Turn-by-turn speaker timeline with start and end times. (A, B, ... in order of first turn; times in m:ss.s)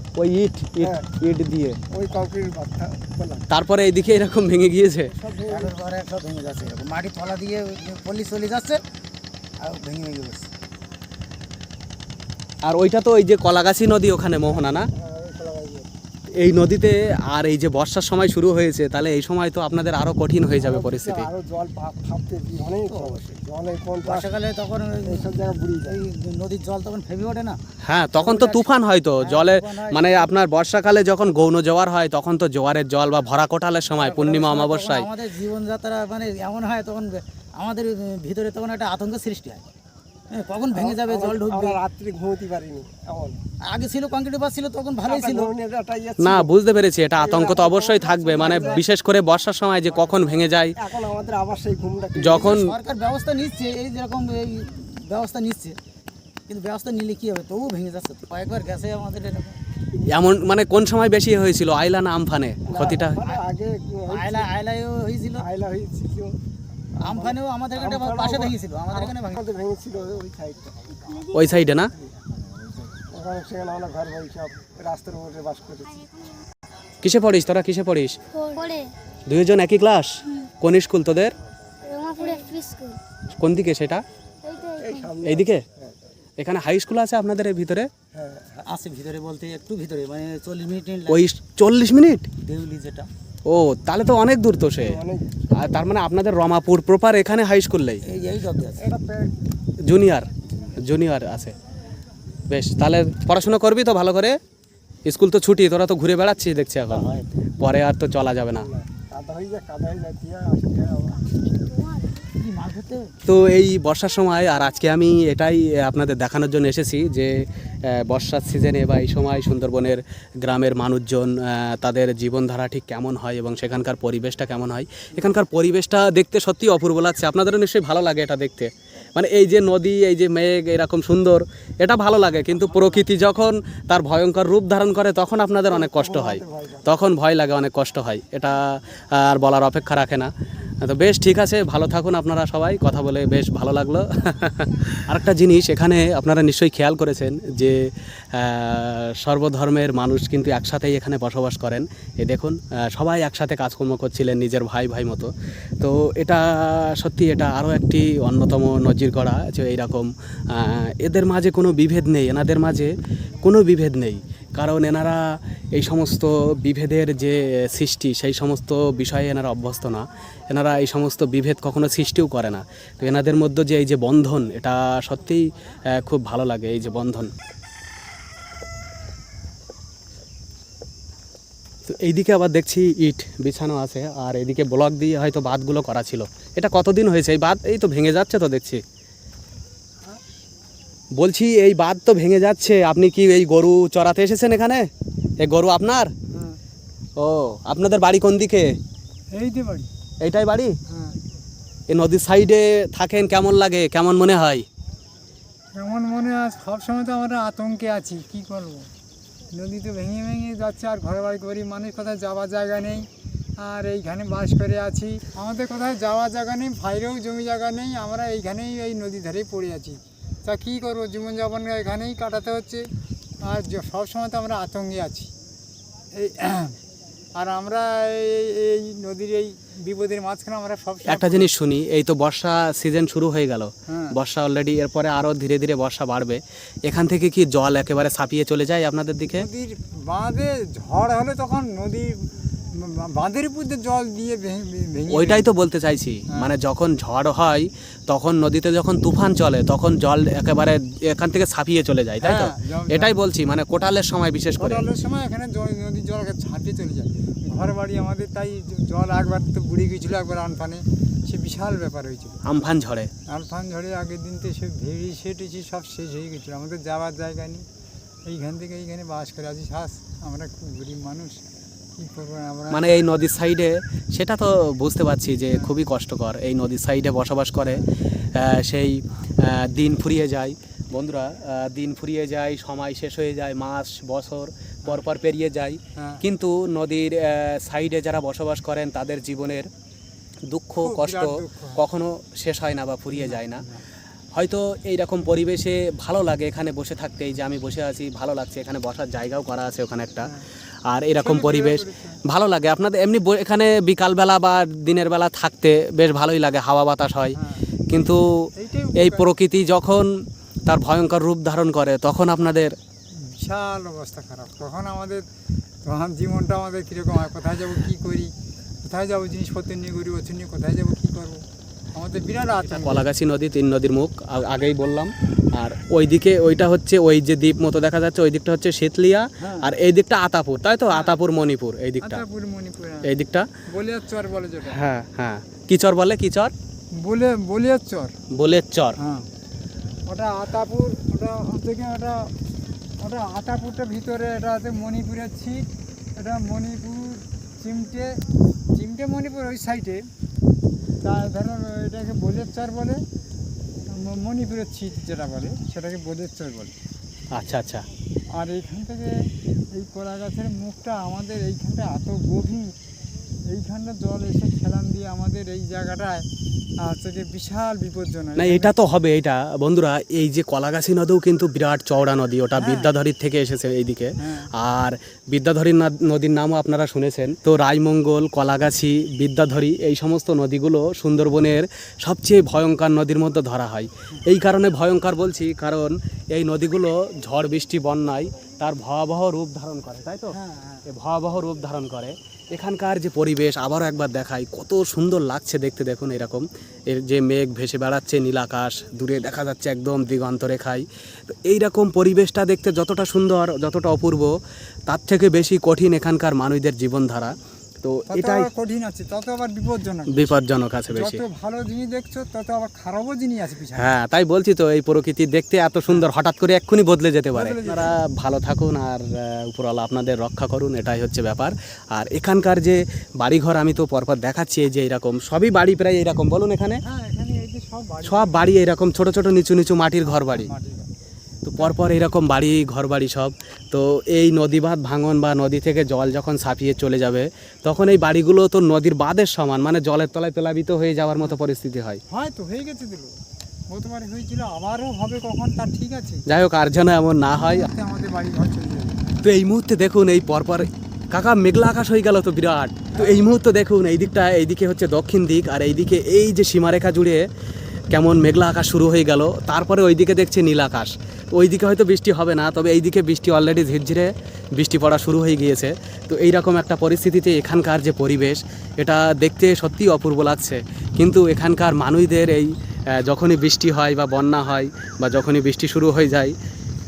0:00.2-0:01.8 A
0:01.9-0:03.4 B
0:03.5-0:05.1 A
0:05.1-0:05.7 B
0:05.5-0:08.8 C
0:09.6-0:10.5 C
0:12.6-0:14.9 A
0:14.6-0:15.9 B
0:16.4-0:21.3 A
0:20.6-0:24.3 B
0:22.8-0:23.2 C
0:24.0-0:25.2 C
0:25.0-0:26.0 B
0:25.8-0:27.6 C
0:27.8-0:35.1 A
0:28.2-0:30.3 C
0:33.9-0:39.6 C
0:40.3-0:41.8 C
0:40.7-0:43.4 B
0:43.7-0:45.5 C
0:45.0-0:46.5 B
0:46.2-0:50.7 A
0:47.2-0:48.8 B
0:48.3-0:48.8 C
0:49.9-0:52.6 B
0:52.2-0:55.8 C
0:52.2-0:52.7 A
0:56.5-0:59.6 C
1:00.1-1:03.2 A
1:02.7-1:04.5 B
1:02.7-1:03.4 C
1:04.1-1:05.4 C
1:05.4-1:06.4 B
1:07.0-1:15.9 B
1:07.0-1:09.4 C
1:11.3-1:11.9 A
1:17.0-1:18.2 A
1:18.3-1:18.9 D
1:19.3-1:21.3 A
1:21.8-1:23.0 D
1:23.4-1:24.0 A
1:24.4-1:25.1 D
1:24.8-1:25.9 B
1:25.2-1:25.6 A
1:26.4-1:27.9 A
1:28.2-1:28.4 B
1:28.5-1:31.2 C
1:31.1-1:32.3 A
1:32.4-1:33.1 C
1:33.4-1:35.0 A
1:34.7-1:35.3 B
1:35.5-1:38.0 A
1:38.0-1:38.9 C
1:38.8-1:39.4 B
1:39.8-1:41.5 A
1:42.5-1:44.4 A
1:45.0-1:47.0 A
1:46.8-1:47.3 C
1:47.6-1:48.7 A
1:48.5-1:51.2 B
1:52.3-1:53.1 C
1:53.2-2:20.3 A
2:15.7-2:16.8 B
2:20.8-2:45.2 A
2:45.7-2:57.3 A
3:01.9-3:08.8 A
3:11.1-3:14.9 A
3:15.4-3:16.1 A
3:17.2-3:18.8 A
3:19.3-3:19.9 E
3:20.2-3:20.7 A
3:20.9-3:21.2 E
3:21.9-3:24.6 A
3:25.7-3:28.9 E
3:29.5-3:33.1 E
3:33.6-3:42.8 E
3:43.4-3:45.3 E
3:46.1-3:46.7 E
3:47.4-3:51.5 E
3:51.1-3:59.5 A
3:53.9-3:54.1 E
3:59.3-4:05.5 E
4:05.1-4:14.8 A
4:12.2-4:13.1 E
4:14.6-4:22.4 E
4:22.4-4:23.1 A
4:23.3-4:27.6 E
4:28.2-4:31.4 E
4:32.0-4:33.1 E
4:32.7-4:49.7 A
4:35.4-4:35.7 E
4:46.0-4:46.2 E
4:50.5-4:53.6 A
4:50.8-4:51.8 E
4:53.1-4:53.8 E
4:54.3-5:00.3 A
5:00.9-5:07.4 A
5:01.2-5:02.2 E
5:07.4-5:09.2 E
5:07.9-5:10.1 A
5:10.7-5:12.7 A
5:13.1-5:15.2 E
5:15.8-5:18.3 E
5:18.8-5:21.4 E
5:21.9-5:23.0 E
5:22.6-5:32.2 A
5:29.4-5:29.6 E
5:30.9-5:31.2 E
5:32.0-5:33.1 E
5:33.0-5:33.5 A
5:33.7-5:34.8 E
5:34.7-5:36.5 A
5:37.0-5:38.1 E
5:38.3-5:39.0 A
5:39.0-5:39.2 E
5:40.1-5:42.3 E
5:43.0-5:48.1 E
5:48.7-5:50.0 E
5:51.0-5:53.0 E
5:53.9-5:56.7 E
5:57.3-5:57.8 A
5:58.3-5:59.1 E
5:59.7-6:02.7 E
6:03.5-6:06.2 E
6:06.8-6:08.7 E
6:08.4-6:30.3 A
6:12.6-6:12.9 E
6:14.2-6:14.5 E
6:30.3-6:30.8 E
6:30.9-6:44.3 A
6:44.9-6:48.5 A
6:48.1-6:50.4 E
6:50.1-6:51.2 A
6:50.9-6:53.9 E
6:53.8-7:06.8 A
6:57.3-6:58.0 E
7:06.8-7:08.5 E
7:08.0-7:10.5 A
7:10.0-7:10.9 E
7:11.4-7:22.0 A
7:11.6-7:11.8 E
7:22.1-7:23.2 E
7:23.7-7:26.2 E
7:26.3-7:27.7 A
7:27.4-7:29.1 E
7:29.2-7:37.3 A
7:32.9-7:33.2 E
7:37.9-7:52.5 A
7:53.0-7:56.3 A